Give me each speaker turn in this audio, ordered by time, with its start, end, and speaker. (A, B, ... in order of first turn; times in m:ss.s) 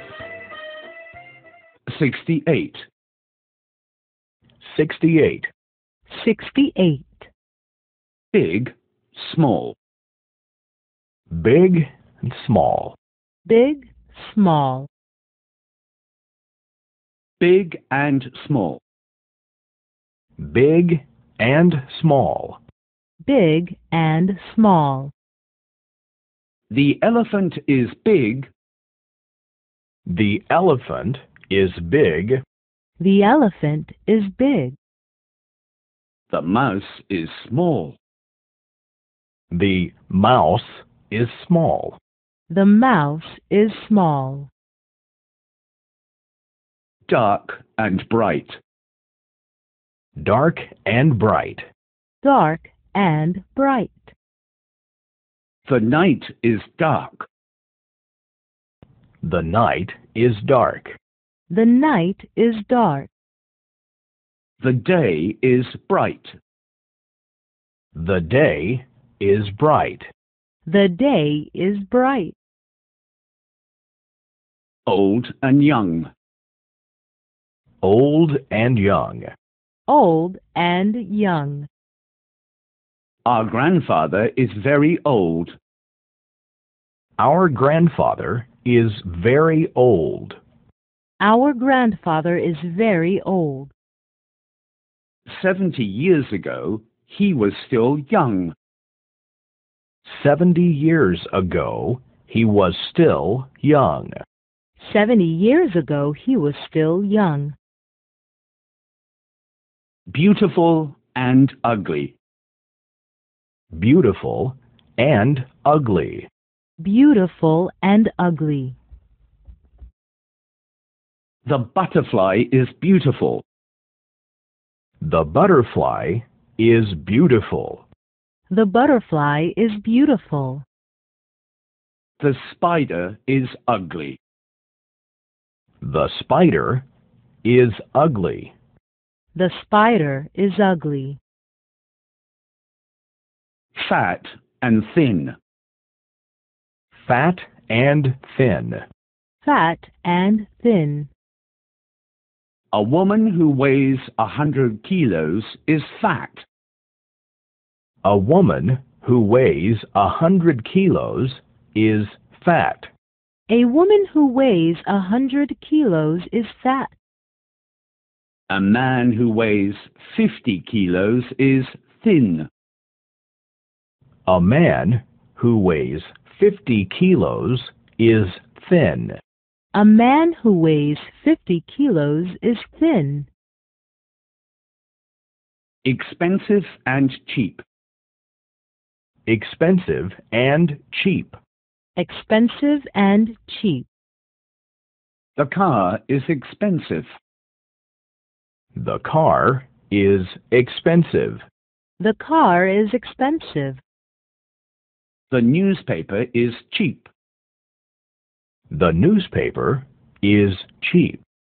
0:01.9-0:02.8 A
0:04.6-0:05.5 B
0:06.1-0:07.3 C
0:08.3-0:09.8 A
0:11.3-0:13.0 B
0:13.4-0:14.9 C
0:17.4-0:18.8 A
0:20.4-0:22.6 B
0:23.2-0:25.1 C
0:26.7-0:28.5 A
0:30.1-0:32.4 B
0:33.0-0:34.8 C
0:36.3-0:38.0 A
0:39.5-0:42.0 B
0:42.5-0:44.5 C
0:47.1-0:48.6 A
0:50.2-0:51.7 B
0:52.2-0:54.1 C
0:55.6-0:57.3 A
0:59.2-1:01.0 B
1:01.5-1:03.1 C
1:04.6-1:06.4 A
1:07.9-1:10.1 B
1:10.6-1:12.3 C
1:14.9-1:16.1 A
1:17.8-1:19.3 B
1:19.9-1:21.7 C
1:23.2-1:25.6 A
1:27.2-1:30.4 B
1:31.2-1:33.7 C
1:35.3-1:38.5 A
1:40.0-1:44.2 B
1:44.8-1:47.6 C
1:50.1-1:52.1 A
1:53.7-1:56.3 B
1:56.8-1:58.8 C
2:01.4-2:03.4 A
2:05.0-2:07.8 B
2:08.5-2:10.6 C
2:12.2-2:14.2 A
2:15.8-2:16.8 B
2:17.4-2:18.5 B
2:19.3-2:21.2 C
2:23.7-2:25.3 A
2:26.9-2:28.8 B
2:29.4-2:31.1 C
2:32.7-2:36.4 A
2:38.0-2:42.9 B
2:43.5-2:46.9 C
2:48.5-2:52.5 A
2:54.3-2:59.2 B
2:59.7-3:03.3 C
3:05.8-3:07.6 A
3:09.2-3:11.4 B
3:12.0-3:13.9 C
3:15.4-3:17.1 A
3:18.8-3:21.4 B
3:22.0-3:23.8 C
3:25.3-3:27.1 A
3:28.7-3:31.2 B